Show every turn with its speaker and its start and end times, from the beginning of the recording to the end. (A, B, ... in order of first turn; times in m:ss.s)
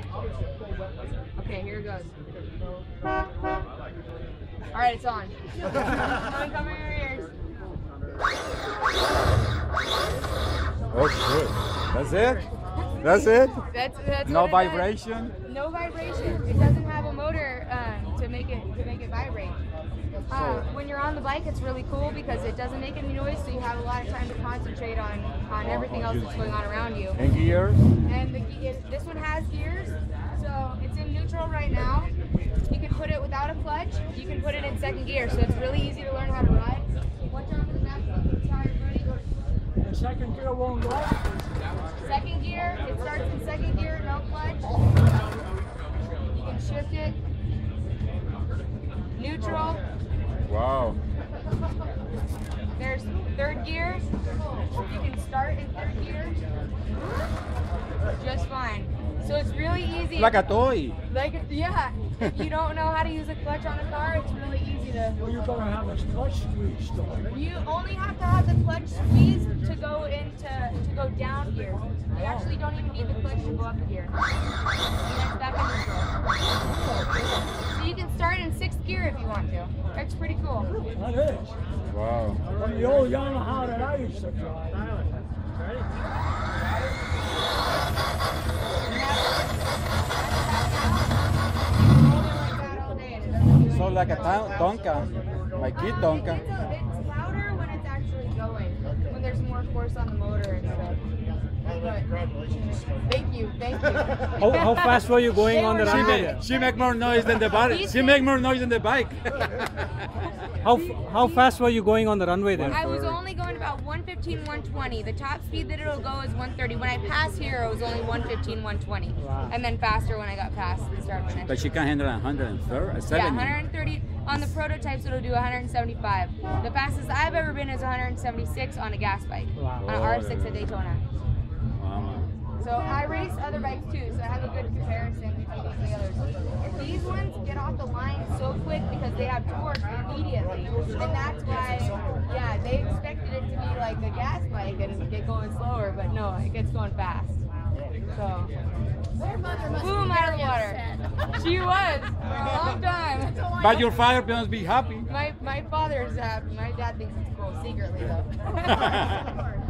0:01.4-0:02.1 A
0:04.7-0:07.3 A
0:10.9-0:12.5 B
0:13.0-0:13.6 B
0:13.0-0:14.9 A
0:14.2-0:15.4 B
0:15.4-0:19.6 A
0:20.3-0:27.2 A
0:20.3-0:20.7 B
0:25.6-0:26.5 B
0:27.1-0:27.8 B
0:28.1-0:32.1 A
0:32.7-0:39.1 A
0:39.8-0:41.2 C
0:42.0-0:44.6 A
0:46.3-0:47.2 A
0:49.2-0:49.8 A
0:50.5-0:51.0 B
0:52.8-0:54.0 A
0:54.7-0:56.4 A
0:58.2-1:00.5 A
1:00.2-1:01.0 B
1:01.1-1:05.2 A
1:05.2-1:07.2 C
1:07.3-1:14.2 A
1:15.0-1:16.1 A
1:17.7-1:20.7 A
1:21.0-1:21.5 C
1:21.9-1:22.4 B
1:22.6-1:24.7 C
1:28.9-1:34.7 A
1:33.7-1:36.4 B
1:35.7-1:41.0 A
1:41.8-1:42.0 A
1:43.0-1:46.9 A
1:44.4-1:46.4 D
1:45.8-1:49.9 B
1:47.4-1:48.3 A
1:50.6-1:53.1 D
1:50.7-1:51.5 A
1:52.5-1:53.0 B
1:52.7-2:01.7 A
1:59.2-1:59.5 D
2:01.5-2:03.6 B
2:03.1-2:11.0 A
2:09.6-2:09.8 D
2:09.8-2:10.7 B
2:11.8-2:12.3 B
2:12.6-2:27.4 A
2:28.1-2:28.5 A
2:29.2-2:31.2 C
2:29.8-2:33.5 A
2:33.2-2:34.1 C
2:33.5-2:35.1 B
2:35.1-2:39.2 A
2:38.7-2:39.3 B